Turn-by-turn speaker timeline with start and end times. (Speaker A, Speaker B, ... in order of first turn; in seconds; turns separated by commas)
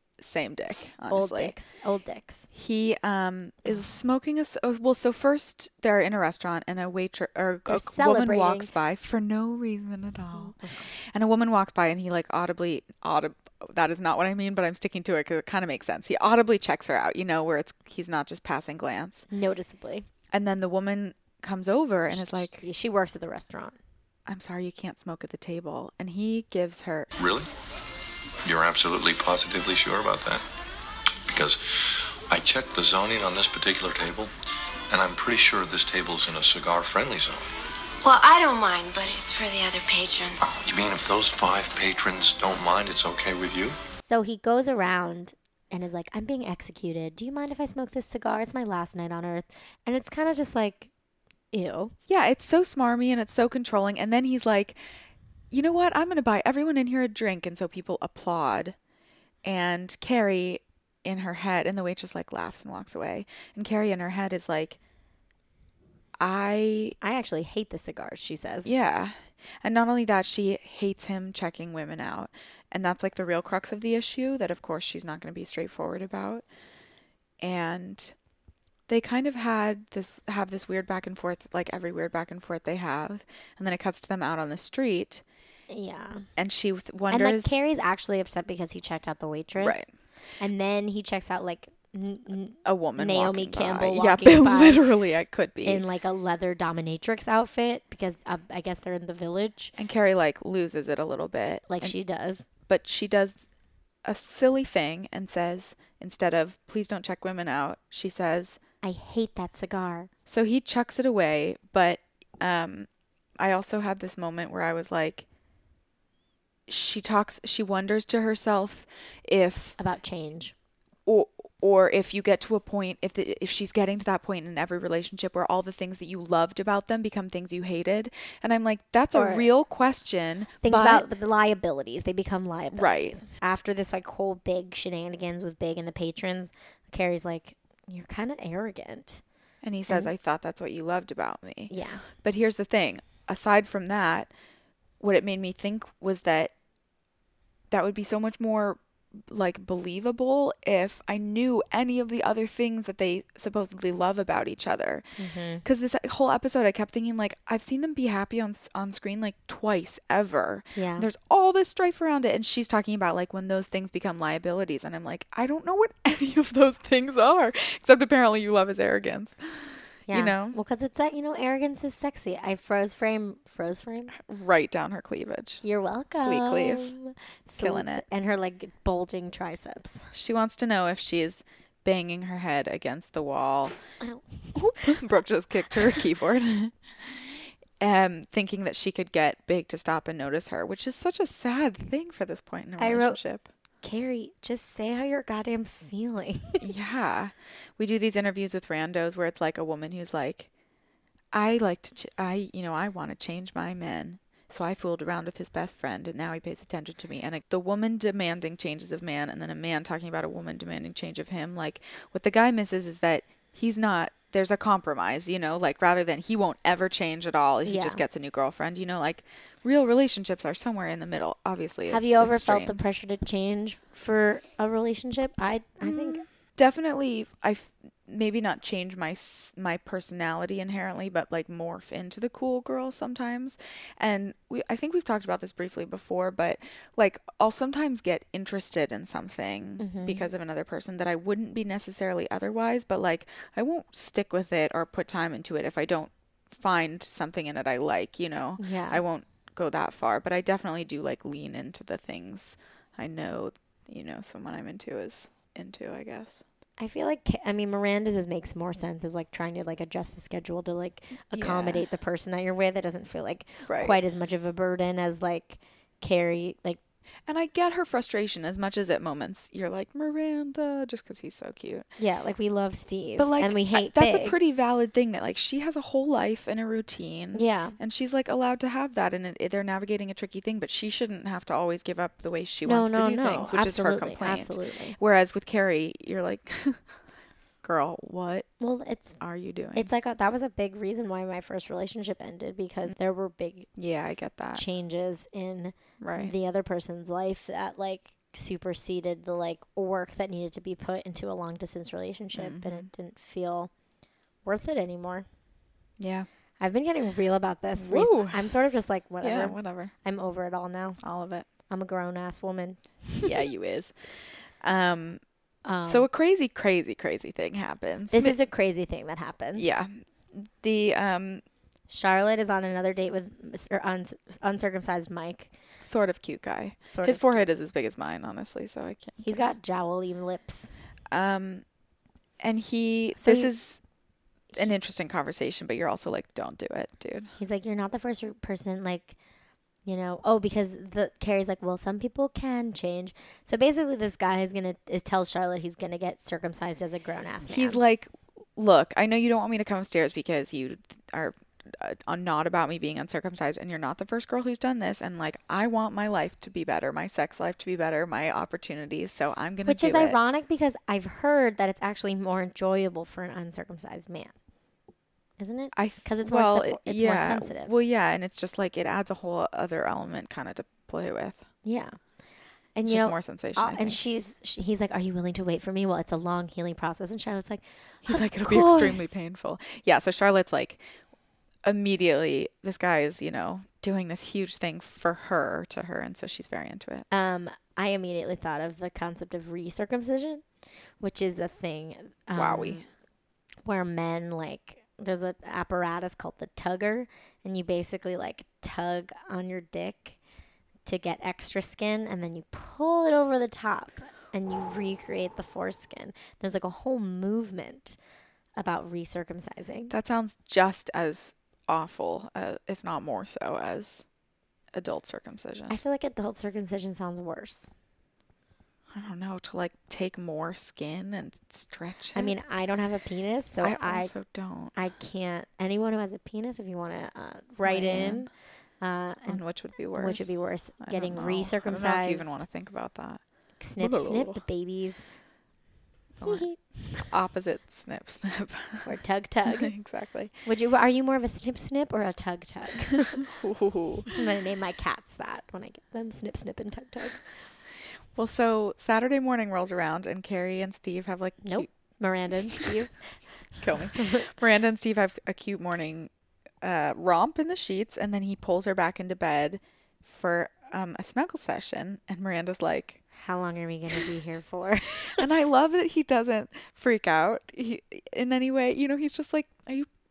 Speaker A: 0.2-1.5, Speaker B: 1.1-2.5, Speaker A: 2.5-19.3, Speaker B: 7.7-8.7, Speaker B: 10.3-10.9, Speaker B: 19.3-20.1, Speaker A: 20.3-22.6, Speaker B: 22.1-23.8, Speaker A: 24.3-27.1, Speaker C: 27.2-27.5, Speaker C: 28.4-30.4, Speaker C: 31.3-34.3, Speaker C: 34.9-37.5, Speaker D: 38.0-40.3, Speaker C: 40.4-43.8, Speaker B: 44.0-50.9, Speaker B: 51.5-51.9, Speaker A: 52.1-54.8, Speaker A: 55.5-58.8, Speaker A: 59.4-64.8, Speaker A: 66.2-67.0, Speaker B: 67.0-68.7, Speaker A: 68.6-76.4, Speaker A: 77.4-78.1, Speaker A: 78.9-85.2, Speaker B: 85.7-86.3, Speaker A: 86.4-87.6, Speaker B: 87.1-89.9, Speaker A: 89.6-89.9, Speaker B: 90.4-94.8, Speaker A: 92.6-95.8, Speaker B: 95.6-99.7, Speaker A: 99.8-101.9, Speaker B: 101.7-102.5, Speaker A: 102.7-103.4, Speaker A: 104.0-108.6, Speaker B: 108.8-110.1, Speaker A: 110.3-115.2, Speaker A: 116.7-119.8, Speaker B: 119.8-120.5, Speaker A: 121.1-131.1, Speaker B: 129.1-129.5, Speaker B: 130.6-139.2, Speaker A: 132.7-133.2, Speaker A: 139.6-144.3, Speaker B: 141.7-142.0, Speaker A: 145.0-146.5, Speaker A: 147.7-155.1, Speaker B: 155.2-155.6, Speaker A: 155.6-170.6, Speaker B: 160.8-161.1, Speaker B: 170.1-174.1, Speaker A: 174.2-175.6, Speaker B: 175.6-180.1, Speaker A: 176.1-176.9, Speaker A: 177.6-178.1, Speaker A: 180.1-183.8, Speaker B: 184.0-185.0, Speaker A: 184.6-193.5, Speaker B: 192.8-193.2, Speaker B: 193.8-196.6, Speaker A: 196.6-200.5, Speaker A: 201.3-222.9, Speaker B: 217.6-218.0, Speaker B: 221.9-226.2, Speaker A: 225.8-256.4, Speaker B: 239.8-240.3, Speaker B: 248.6-249.0, Speaker B: 256.8-266.8, Speaker A: 261.3-261.9, Speaker A: 263.7-264.0, Speaker A: 267.3-271.9, Speaker B: 272.0-274.4, Speaker A: 273.2-286.8, Speaker B: 277.3-277.8, Speaker B: 282.6-284.9, Speaker A: 287.6-288.5, Speaker B: 288.6-289.2, Speaker A: 289.2-289.9, Speaker B: 289.7-293.7, Speaker A: 293.8-294.6, Speaker B: 294.5-303.7, Speaker A: 296.0-296.3, Speaker A: 302.4-302.9, Speaker B: 304.4-305.2, Speaker A: 306.0-306.3, Speaker B: 306.6-311.0, Speaker A: 307.8-308.5, Speaker A: 309.2-309.9, Speaker A: 311.0-311.5, Speaker B: 311.7-313.3, Speaker A: 313.2-315.2, Speaker B: 315.6-316.1, Speaker A: 315.9-318.4, Speaker B: 318.1-319.7, Speaker A: 319.6-321.4, Speaker B: 321.9-325.5, Speaker A: 325.8-329.4, Speaker B: 326.9-327.5, Speaker B: 329.2-330.7, Speaker A: 331.1-331.6, Speaker A: 332.4-333.8, Speaker B: 333.2-333.5, Speaker A: 334.5-337.3, Speaker B: 337.4-339.2, Speaker B: 339.9-347.8, Speaker A: 347.4-360.2, Speaker B: 359.6-364.3, Speaker B: 365.4-367.7, Speaker A: 365.7-371.4, Speaker B: 371.6-372.0, Speaker B: 372.7-379.2, Speaker A: 372.9-374.0, Speaker A: 378.0-380.8, Speaker A: 381.6-387.1, Speaker B: 387.1-390.4, Speaker B: 391.0-392.9, Speaker A: 392.3-392.9, Speaker B: 393.6-400.2, Speaker B: 400.9-408.0, Speaker B: 408.6-409.9, Speaker A: 409.9-414.1, Speaker A: 414.7-415.8, Speaker B: 415.7-417.7, Speaker A: 418.9-422.4, Speaker B: 422.1-424.1, Speaker A: 423.6-424.7, Speaker B: 424.7-428.3, Speaker A: 427.6-428.3, Speaker B: 428.8-429.4, Speaker A: 429.3-433.2, Speaker B: 429.9-432.4, Speaker B: 433.6-435.1, Speaker A: 433.8-434.4, Speaker A: 436.2-436.4, Speaker B: 436.2-437.1, Speaker A: 437.1-438.9, Speaker B: 438.8-439.7, Speaker A: 439.4-440.3, Speaker B: 440.4-443.2, Speaker A: 443.1-444.1, Speaker B: 444.1-447.2, Speaker A: 448.1-451.7, Speaker B: 451.4-453.1, Speaker A: 453.6-456.1, Speaker B: 453.9-454.3, Speaker A: 456.6-463.0, Speaker B: 463.1-465.2, Speaker A: 465.1-469.9